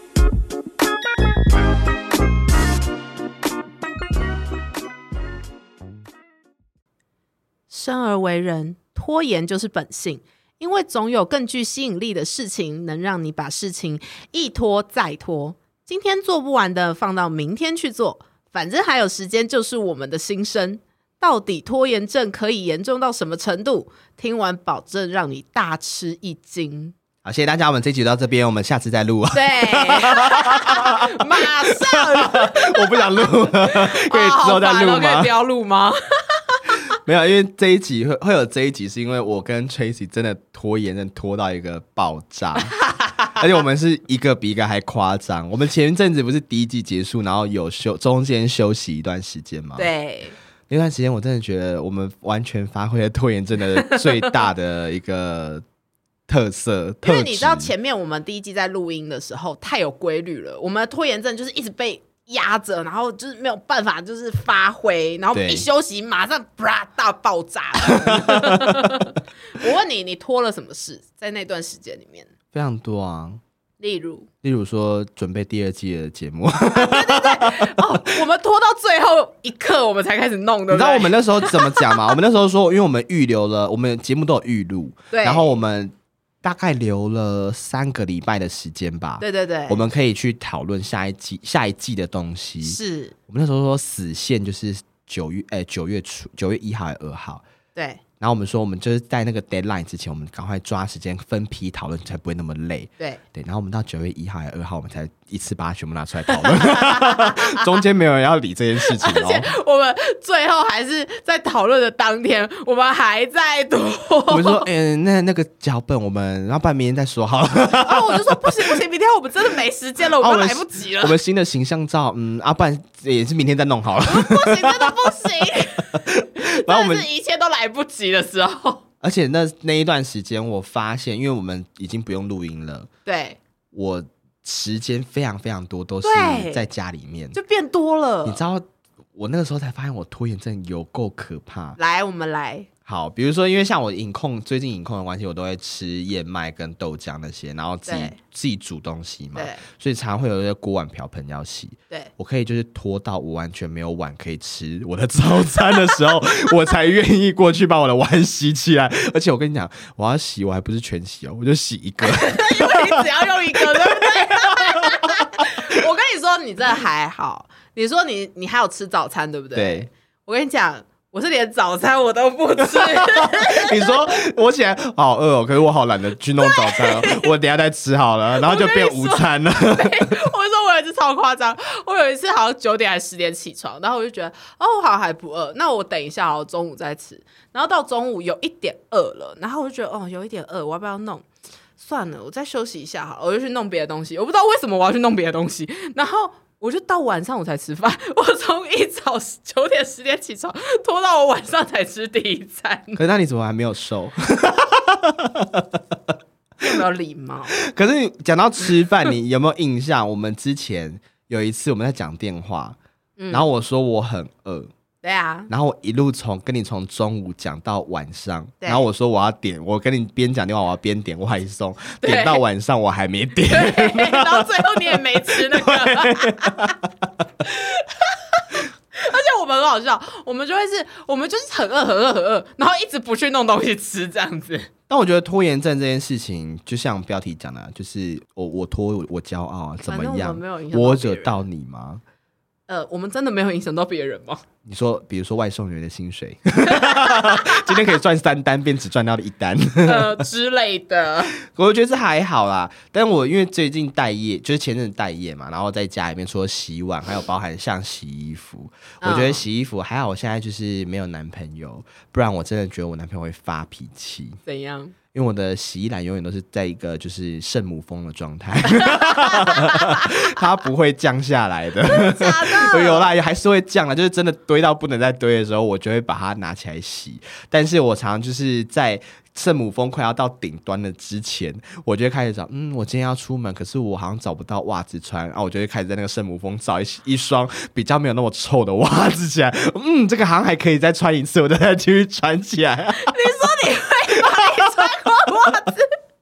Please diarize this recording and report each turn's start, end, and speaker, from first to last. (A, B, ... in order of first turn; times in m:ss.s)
0:07.7-0:26.9 A
0:27.2-0:35.3 B
0:29.3-0:36.8 A
0:36.9-0:42.7 B
0:42.8-0:43.3 A
0:43.4-0:49.9 B
0:49.8-0:50.3 A
0:50.7-0:55.6 B
0:56.3-0:57.7 B
0:57.0-1:12.3 A
1:05.3-1:05.6 B
1:07.8-1:09.1 B
1:12.5-1:13.4 B
1:13.8-1:14.3 A
1:14.4-1:17.8 B
1:16.7-1:22.0 A
1:20.7-1:37.4 B
1:25.1-1:25.6 A
1:29.2-1:29.8 A
1:32.6-1:33.2 A
1:37.7-1:38.0 A
1:38.2-1:49.5 B
1:46.3-1:47.7 A
1:48.8-1:54.7 A
1:54.3-1:58.8 B
1:57.7-2:01.2 A
2:00.1-2:05.0 B
2:04.0-2:08.8 A
2:05.9-2:07.1 B
2:09.0-2:12.9 B
2:13.0-2:13.4 A
2:13.7-2:17.4 B
2:16.0-2:16.6 A
2:17.3-2:18.4 A
2:18.2-2:18.6 B
2:19.2-2:21.8 B
2:21.8-2:22.7 A
2:22.8-2:45.5 B
2:27.9-2:28.2 A
2:29.4-2:29.6 A
2:42.0-2:54.1 A
2:49.5-2:49.9 B
2:52.7-3:00.2 B
2:56.4-2:57.3 A
2:58.4-3:11.2 A
3:11.8-3:23.0 A
3:23.0-3:25.8 B
3:26.6-3:27.5 A
3:27.6-3:32.8 B
3:33.2-3:33.4 A
3:33.3-3:34.7 B
3:35.0-3:35.5 A
3:35.5-3:47.1 B
3:42.0-3:42.4 A
3:43.4-3:46.8 A
3:47.4-3:54.7 A
3:54.9-4:02.0 B
3:59.8-4:01.4 A
4:02.7-4:04.4 A
4:04.6-4:10.2 B
4:06.7-4:07.9 A
4:09.8-4:11.3 A
4:11.4-4:24.4 B
4:19.0-4:19.4 A
4:24.4-4:24.9 A
4:25.1-4:53.3 B
4:28.9-4:30.0 A
4:31.8-4:33.1 A
4:53.0-4:55.9 A
4:54.3-4:54.6 B